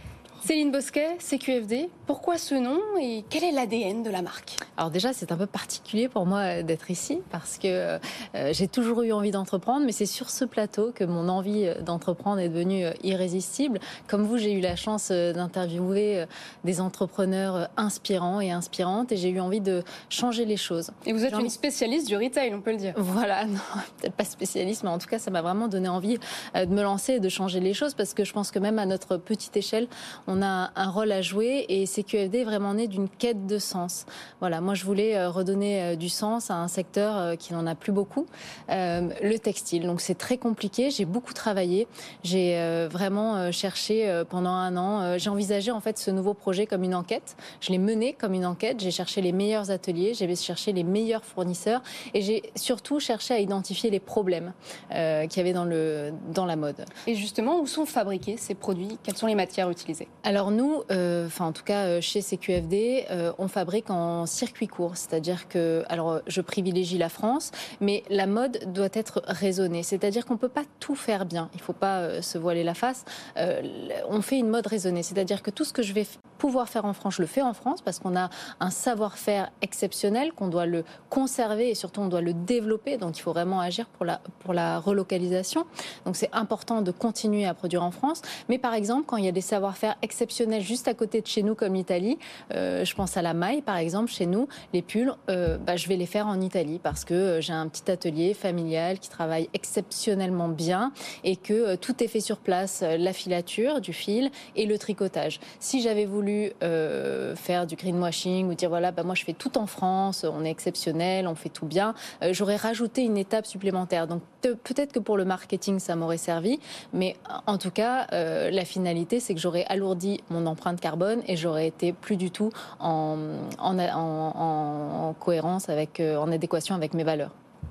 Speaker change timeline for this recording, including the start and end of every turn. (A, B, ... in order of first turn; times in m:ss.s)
0:00.4-0:04.6 A
0:04.8-0:21.5 B
0:21.0-0:23.0 A
0:23.0-0:56.9 B
0:57.1-1:00.1 A
1:00.2-2:07.3 B